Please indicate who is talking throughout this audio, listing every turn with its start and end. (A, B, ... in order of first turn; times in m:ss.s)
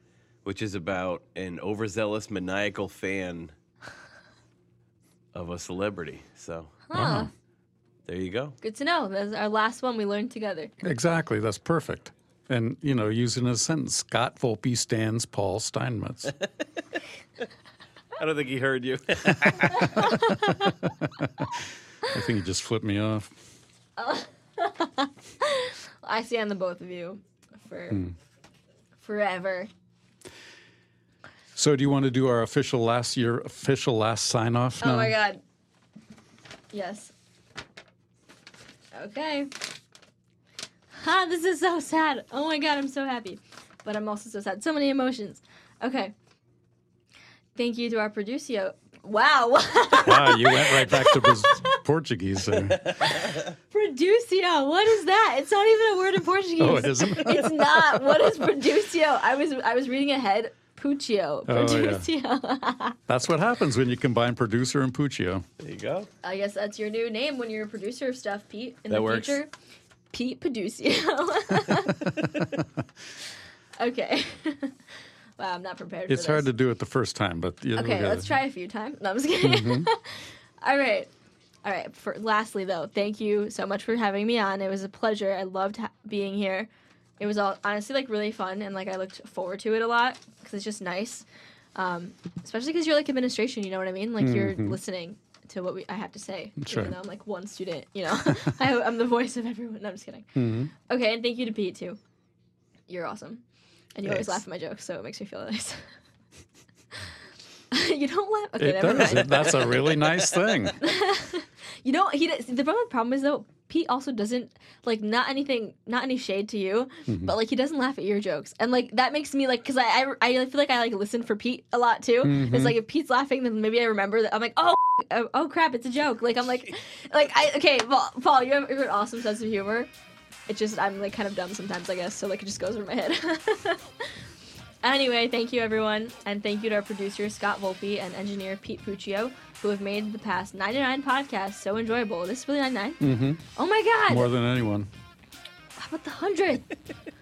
0:00.4-0:03.5 A
0:05.3-0:06.8 A
0:06.9-0:07.3 B
0:06.9-0:07.3 C
0:08.1-0:08.6 A
0:08.6-0:10.7 B
0:10.8-0:16.4 C
0:18.2-0:20.2 A
0:20.0-0:20.3 C
0:20.0-0:20.7 B
0:21.0-0:21.6 C
0:22.1-0:23.4 C
0:24.0-0:28.0 B
0:29.0-0:29.7 B
0:31.5-0:35.2 C
0:34.8-0:35.4 B
0:36.7-0:37.1 B
0:38.9-0:39.5 B
0:41.0-0:46.1 B
0:47.6-0:51.8 B
0:50.0-0:52.9 C
0:53.1-1:03.0 B
0:56.6-0:58.3 C
1:01.5-1:02.1 C
1:03.1-1:05.5 C
1:05.6-1:06.1 A
1:06.2-1:09.5 B
1:08.9-1:09.4 A
1:10.1-1:12.1 B
1:13.8-1:14.8 B
1:15.4-1:16.5 B
1:16.1-1:18.4 C
1:17.8-1:21.1 B
1:19.4-1:19.9 C
1:21.6-1:26.7 B
1:27.2-1:42.0 B
1:34.2-1:34.8 C
1:36.6-1:37.0 C
1:38.2-1:38.5 C
1:40.4-1:40.7 C
1:42.9-1:43.4 B
1:44.0-1:45.8 B
1:44.0-1:44.4 C
1:47.7-1:49.8 B
1:48.6-1:50.8 C
1:50.8-2:09.9 B
1:57.1-1:57.4 C
2:02.2-2:02.8 C
2:10.5-2:13.9 B
2:14.8-2:24.3 B
2:23.0-2:23.4 C
2:24.1-2:24.9 C
2:25.8-2:26.7 B